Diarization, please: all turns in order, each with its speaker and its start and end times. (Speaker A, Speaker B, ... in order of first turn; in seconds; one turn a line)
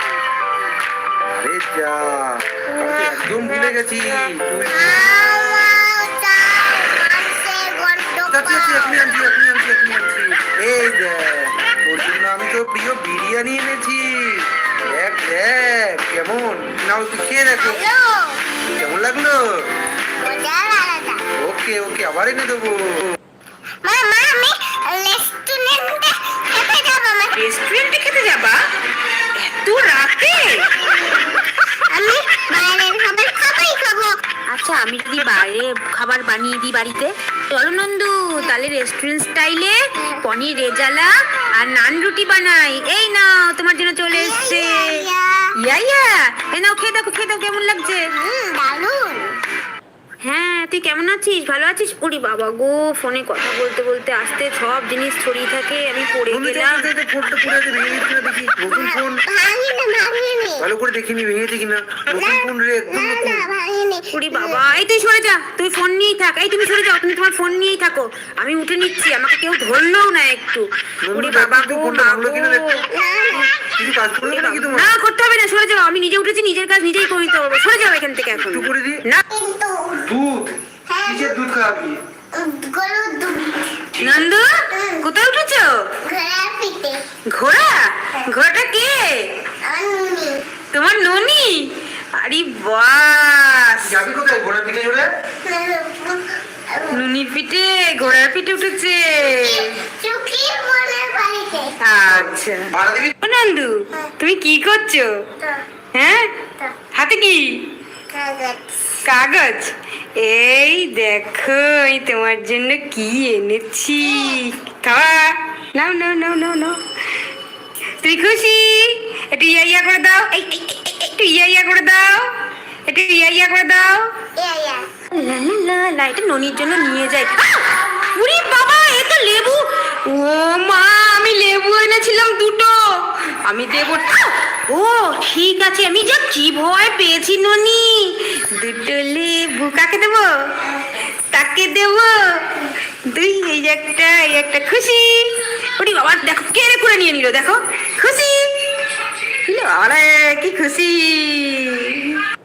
Speaker A: 1.2-5.1
Speaker B: 4.7-9.3
Speaker A: 8.3-17.8
Speaker B: 17.6-18.4
Speaker A: 18.6-19.7
Speaker B: 20.2-21.2
Speaker A: 21.4-23.2
Speaker B: 23.8-27.4
Speaker C: 27.4-28.7
Speaker C: 29.4-30.7
Speaker B: 31.9-34.2
Speaker C: 34.5-45.0
Speaker B: 44.1-45.5
Speaker C: 45.6-48.1
Speaker B: 48.1-49.3
Speaker C: 50.2-56.9
Speaker A: 56.3-59.2
Speaker B: 58.7-60.6
Speaker A: 60.6-63.5
Speaker B: 62.1-64.6
Speaker C: 64.1-72.8
Speaker A: 71.0-74.9
Speaker B: 72.9-73.8
Speaker C: 74.2-79.2
Speaker A: 78.3-79.0
Speaker B: 79.3-80.1
Speaker A: 80.1-82.0
Speaker B: 80.9-81.4
Speaker B: 82.3-83.8
Speaker A: 84.0-84.2
Speaker C: 84.0-85.8
Speaker B: 84.7-85.0
Speaker B: 86.0-87.0
Speaker C: 87.3-89.3
Speaker B: 89.6-90.4
Speaker C: 90.7-93.9
Speaker A: 93.8-95.1
Speaker B: 95.4-97.0
Speaker C: 96.9-99.8
Speaker B: 99.2-101.8
Speaker C: 101.8-105.2
Speaker A: 102.1-103.1
Speaker C: 105.9-106.3
Speaker C: 106.9-107.7
Speaker B: 108.1-109.0
Speaker C: 109.0-116.8
Speaker B: 114.0-114.4
Speaker C: 118.0-122.3
Speaker C: 122.9-124.1
Speaker B: 124.3-124.9
Speaker C: 125.1-140.3
Speaker B: 127.7-128.1
Speaker C: 141.3-148.5
Speaker C: 149.4-152.2